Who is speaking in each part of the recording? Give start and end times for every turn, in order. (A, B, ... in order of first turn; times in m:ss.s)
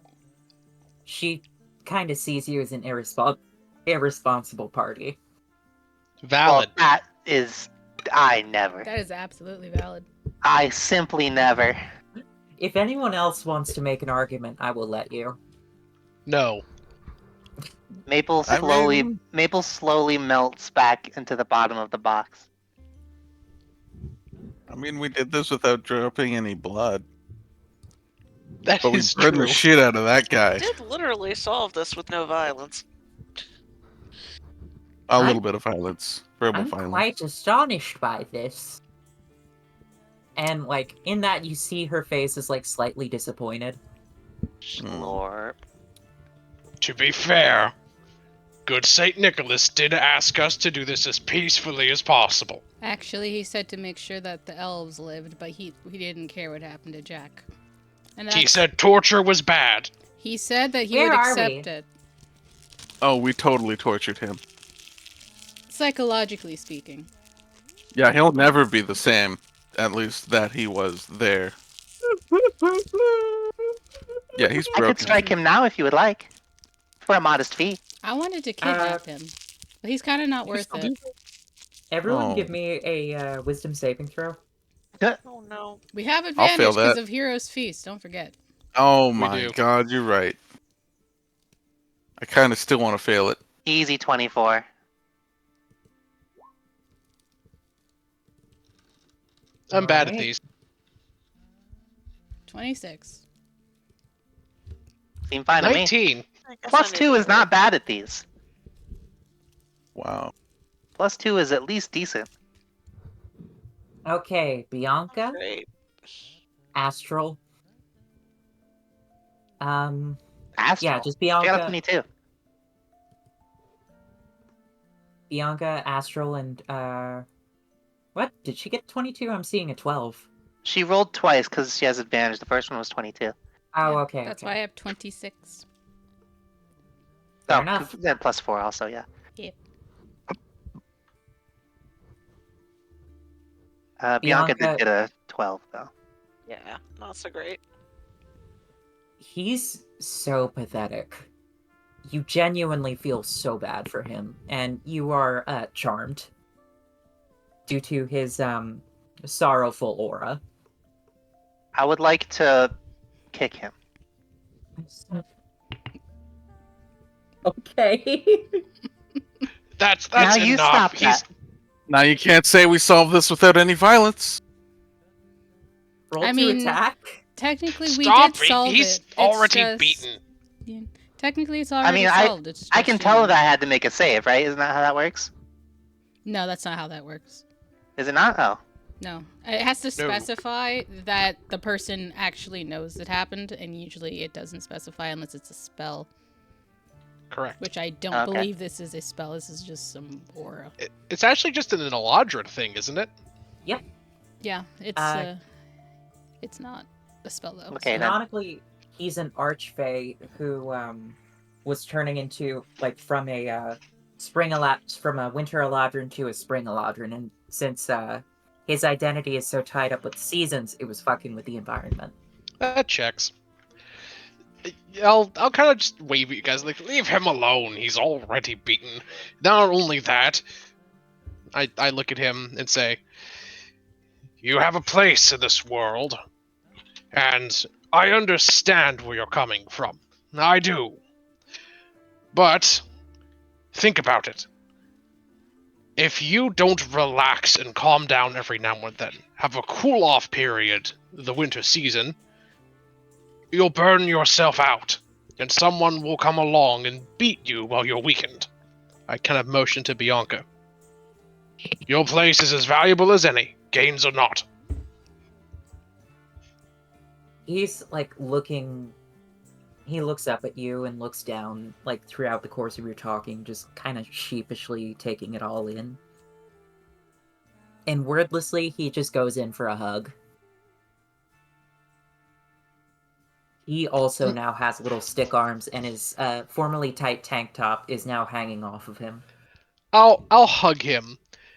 0:01.0-0:05.2 A
0:06.2-0:06.7 B
0:06.4-0:08.9 C
0:08.8-0:10.1 D
0:10.4-0:11.8 C
0:12.6-0:15.4 A
0:16.2-0:16.6 B
0:18.1-0:22.4 C
0:18.4-0:19.2 E
0:24.7-0:27.0 E
0:28.6-0:29.6 B
0:28.8-0:30.7 E
0:30.6-0:32.8 F
0:35.1-0:37.0 E
0:36.5-0:38.8 A
0:40.4-0:43.8 A
0:44.8-0:45.6 C
0:44.8-0:45.2 E
0:46.8-0:47.7 B
0:48.7-0:52.6 B
0:52.8-0:57.4 D
0:58.2-0:58.7 D
0:58.3-0:59.9 B
1:00.2-1:01.9 D
1:00.9-1:01.7 A
1:03.0-1:04.4 E
1:05.7-1:07.1 D
1:07.9-1:11.6 E
1:12.7-1:13.2 A
1:14.4-1:15.2 E
1:14.7-1:16.3 C
1:17.0-1:17.8 C
1:18.0-1:20.9 D
1:18.6-1:19.0 A
1:21.9-1:24.4 A
1:22.1-1:22.6 E
1:25.2-1:25.8 F
1:25.9-1:28.4 D
1:26.4-1:27.0 E
1:28.7-1:30.4 E
1:29.1-1:29.6 B
1:32.2-1:33.4 E
1:33.7-1:34.6 C
1:39.7-1:40.4 B
1:39.7-1:40.3 A
1:42.5-1:43.2 D
1:45.3-1:45.9 C
1:45.6-1:46.3 B
1:46.5-1:47.6 F
1:46.7-1:48.2 C
1:49.9-1:50.3 E
1:51.0-1:52.3 C
1:54.1-1:55.4 A
1:55.2-1:55.7 F
1:56.7-1:57.4 A
1:59.6-2:00.2 A
2:00.6-2:02.0 C
2:00.8-2:01.8 A
2:05.3-2:07.2 A
2:08.1-2:10.3 A
2:10.6-2:13.3 C
2:13.7-2:14.5 A
2:13.8-2:15.6 D
2:17.5-2:17.9 A
2:17.5-2:19.1 C
2:24.0-2:25.9 C
2:24.2-2:24.8 A
2:26.5-2:27.6 F
2:29.2-2:31.3 A
2:32.0-2:36.3 A
2:37.7-2:40.4 A
2:41.8-2:42.7 C
2:43.3-2:43.7 C
2:44.8-2:45.2 A
2:47.4-2:48.6 A
2:49.8-2:51.3 B
2:50.2-2:51.2 C
2:51.9-2:54.4 E
2:56.1-2:57.2 A
2:56.2-2:56.8 D
2:57.4-3:00.1 D
2:57.8-3:00.2 B
3:00.6-3:03.4 D
3:01.8-3:05.3 C
3:06.2-3:07.4 D
3:08.0-3:08.6 C
3:09.0-3:16.1 D
3:10.0-3:10.3 B
3:17.3-3:17.6 B
3:17.6-3:20.7 D
3:18.1-3:18.5 C
3:20.8-3:23.1 B
3:24.4-3:25.4 D
3:25.0-3:25.3 A
3:26.4-3:27.9 D
3:27.7-3:28.2 C
3:27.9-3:42.1 A
3:42.6-3:43.3 B
3:44.6-3:50.4 B
3:51.5-3:53.0 B
3:54.4-3:56.2 B
3:57.1-4:01.0 B
4:02.3-4:02.8 B
4:03.7-4:04.5 B
4:06.0-4:12.1 B
4:13.5-4:18.5 B
4:19.1-4:20.4 B
4:21.9-4:24.4 B
4:27.5-4:28.9 A
4:29.9-4:36.0 A
4:37.9-4:40.1 A
4:43.6-4:49.2 A
4:49.9-4:51.2 B